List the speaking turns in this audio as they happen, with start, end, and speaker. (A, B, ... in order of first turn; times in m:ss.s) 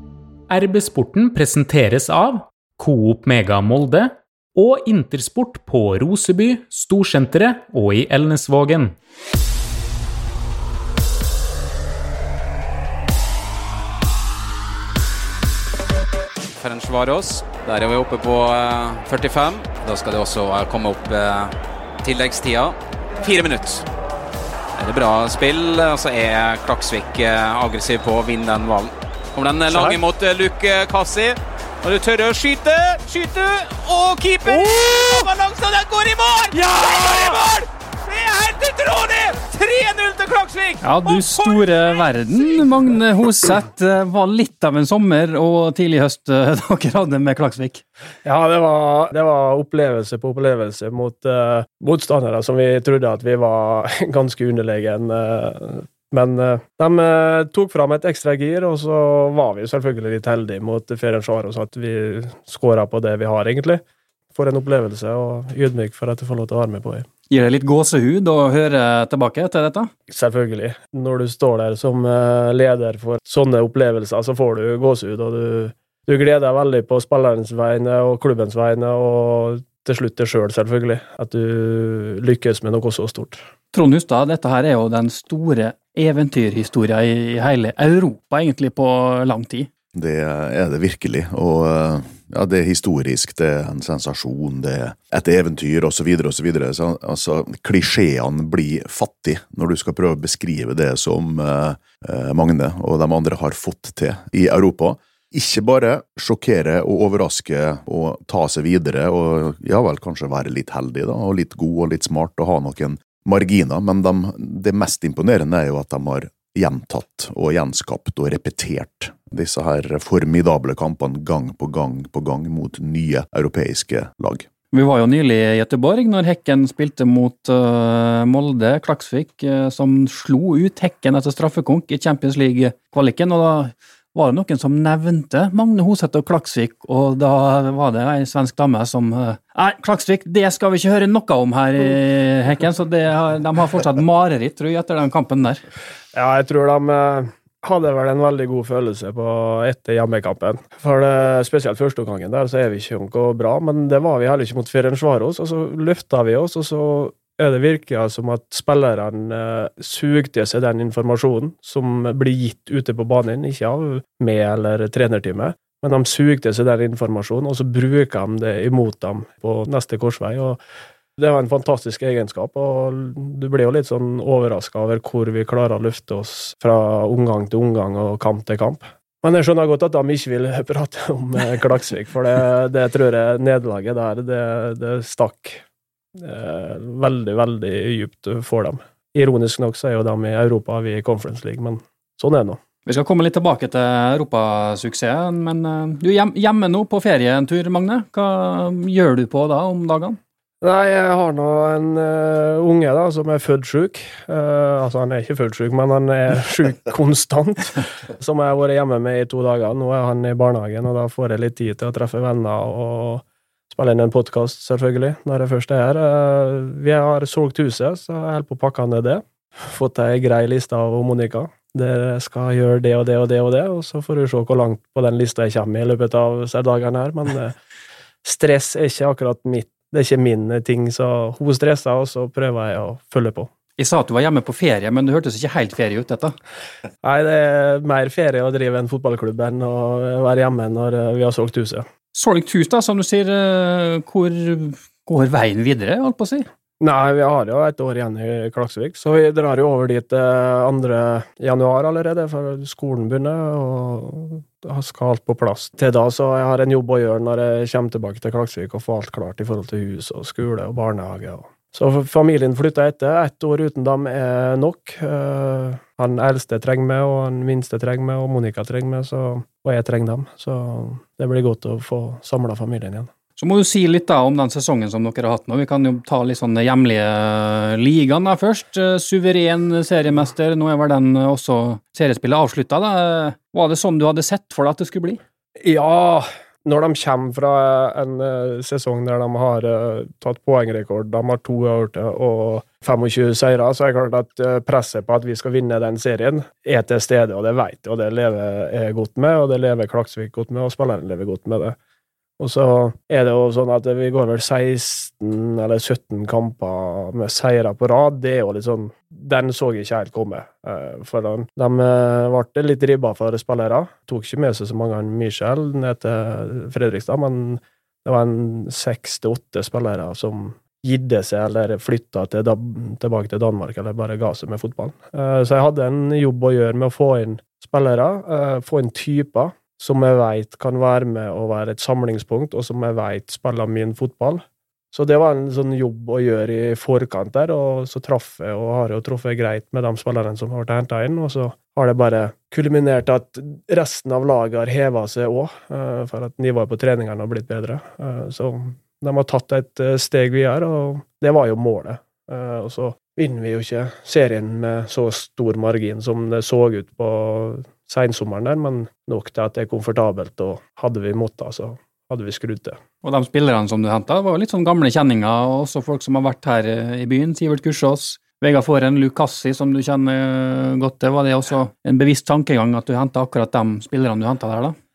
0:00.5-0:08.9 A
0:16.5-0:23.8 B
0:24.8-0:42.7 B
0:40.8-0:47.8 C
0:48.2-1:03.8 D
1:04.3-1:07.1 D
1:07.3-1:09.9 C
1:10.1-1:23.4 D
1:23.7-1:29.7 C
1:29.9-2:04.5 E
2:04.7-2:25.6 C
2:26.1-2:50.6 D
2:51.2-3:05.6 D
3:06.2-3:12.6 D
3:12.8-3:20.2 C
3:20.6-3:47.5 D
3:48.2-3:53.5 D
3:53.8-3:56.3 C
3:57.0-4:01.9 D
4:02.1-4:06.4 C
4:06.8-4:33.1 D
4:33.4-4:45.2 C
4:45.6-5:01.8 D
5:02.4-6:02.8 D
6:03.0-6:14.8 C